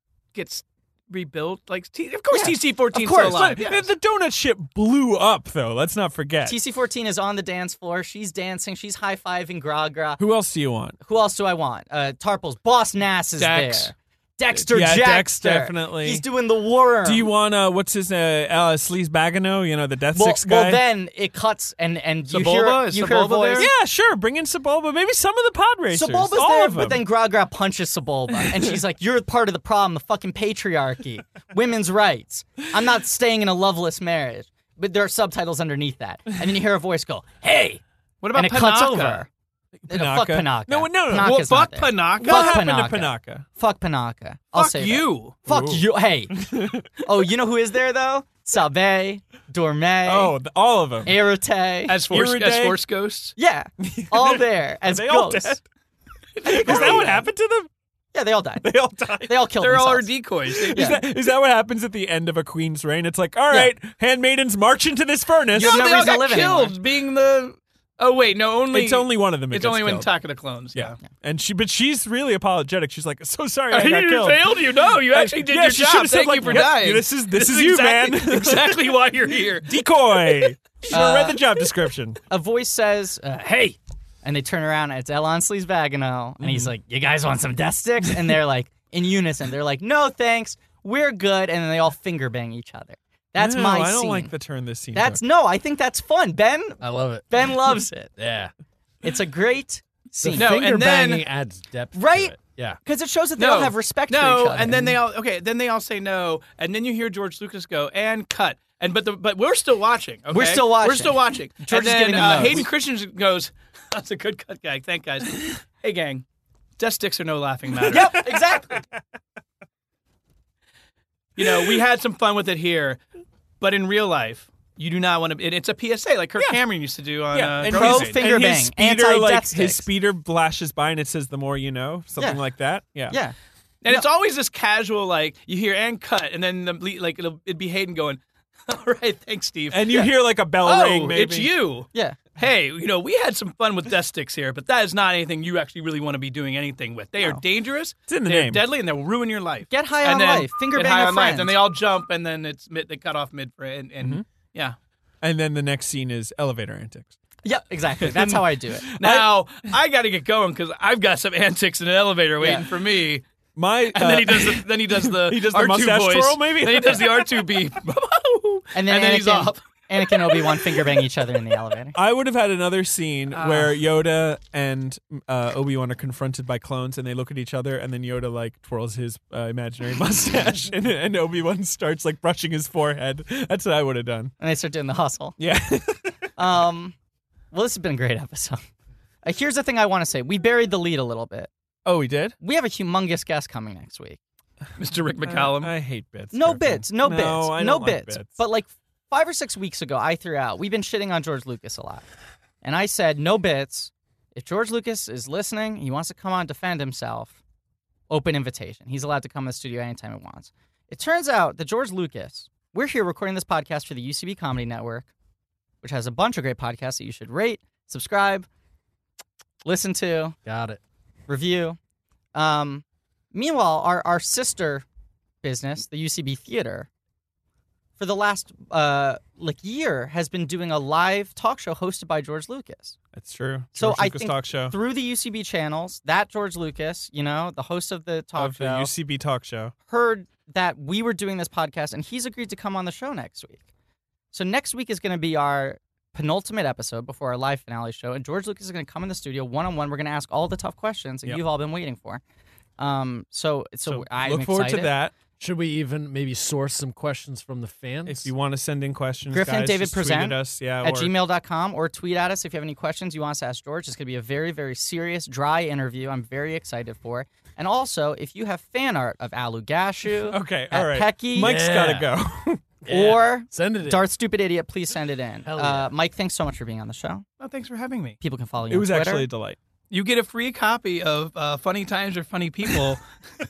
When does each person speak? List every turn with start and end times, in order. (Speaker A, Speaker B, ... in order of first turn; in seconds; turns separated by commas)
Speaker A: 0.3-3.9, Speaker B: 2.3-3.5, Speaker C: 3.3-6.6, Speaker B: 6.4-10.2, Speaker C: 10.2-11.0, Speaker B: 11.0-17.3, Speaker A: 13.4-13.9, Speaker C: 14.5-16.2, Speaker C: 17.0-20.8, Speaker B: 20.1-23.7, Speaker A: 22.3-23.7, Speaker C: 23.6-27.0, Speaker B: 25.9-37.8, Speaker A: 38.2-39.2, Speaker B: 38.3-39.3, Speaker C: 39.8-41.4, Speaker B: 39.9-46.4, Speaker A: 41.2-42.6, Speaker C: 42.2-43.5, Speaker A: 44.5-45.4, Speaker C: 45.5-47.0, Speaker B: 47.0-50.4, Speaker C: 50.0-51.1, Speaker B: 51.0-51.9, Speaker A: 51.9-53.3, Speaker C: 52.1-52.8, Speaker B: 53.4-55.6, Speaker C: 53.8-55.6, Speaker A: 56.4-57.1, Speaker C: 56.4-57.7, Speaker B: 56.5-57.2, Speaker B: 58.1-58.6, Speaker C: 58.6-59.5, Speaker B: 59.2-60.1, Speaker A: 59.6-61.0, Speaker C: 60.5-66.1, Speaker B: 60.7-61.0, Speaker A: 65.5-71.0, Speaker B: 65.5-66.8, Speaker C: 68.7-70.1, Speaker C: 70.7-78.9, Speaker A: 73.7-80.5, Speaker C: 79.6-82.2, Speaker B: 80.9-81.4, Speaker B: 82.3-94.3, Speaker C: 86.4-86.7, Speaker C: 93.3-95.2, Speaker B: 94.9-98.1, Speaker D: 96.8-97.4, Speaker D: 98.2-98.5, Speaker B: 99.0-100.6, Speaker D: 100.2-102.8, Speaker A: 100.4-101.3, Speaker B: 101.9-104.9, Speaker A: 103.4-116.2, Speaker B: 110.3-112.7, Speaker C: 112.2-112.6, Speaker A: 116.8-118.2, Speaker C: 117.8-118.4, Speaker B: 117.9-118.8, Speaker A: 121.4-123.0, Speaker C: 121.4-121.8, Speaker A: 123.6-128.2, Speaker C: 127.3-133.2, Speaker B: 127.7-129.8, Speaker B: 133.1-133.3, Speaker A: 133.8-140.1, Speaker C: 139.7-141.5, Speaker A: 140.6-154.8, Speaker B: 141.9-142.2, Speaker C: 148.1-148.6, Speaker B: 149.7-151.6, Speaker C: 155.2-157.2, Speaker B: 157.4-158.9, Speaker C: 158.0-159.3, Speaker A: 159.0-163.2, Speaker B: 162.4-162.6, Speaker C: 163.6-167.6, Speaker A: 163.9-170.6, Speaker B: 168.7-171.9, Speaker C: 171.9-184.3, Speaker A: 173.3-173.8, Speaker B: 184.4-185.4, Speaker C: 185.4-186.3, Speaker B: 186.4-186.9, Speaker B: 187.5-188.6, Speaker B: 189.2-191.5, Speaker C: 191.8-192.3, Speaker B: 192.4-194.2, Speaker A: 194.8-195.7, Speaker C: 195.2-198.4, Speaker B: 196.3-202.0, Speaker B: 202.6-207.4, Speaker B: 208.1-215.1, Speaker B: 215.8-218.5, Speaker B: 219.6-220.4, Speaker D: 220.4-220.8, Speaker B: 221.3-221.8, Speaker B: 222.3-224.8, Speaker B: 225.4-226.9, Speaker B: 228.0-233.0, Speaker C: 233.1-234.7, Speaker B: 233.7-238.9, Speaker C: 238.4-239.7, Speaker B: 239.9-243.6, Speaker B: 244.3-252.2, Speaker B: 252.8-254.9, Speaker C: 253.8-255.2, Speaker D: 255.4-258.3, Speaker C: 258.1-261.1, Speaker B: 259.3-271.5, Speaker C: 270.3-272.6, Speaker D: 271.4-272.1, Speaker D: 272.8-274.1, Speaker B: 272.9-277.2, Speaker D: 275.4-275.9, Speaker A: 277.4-278.2, Speaker B: 278.2-279.3, Speaker C: 278.7-279.6, Speaker A: 279.9-283.0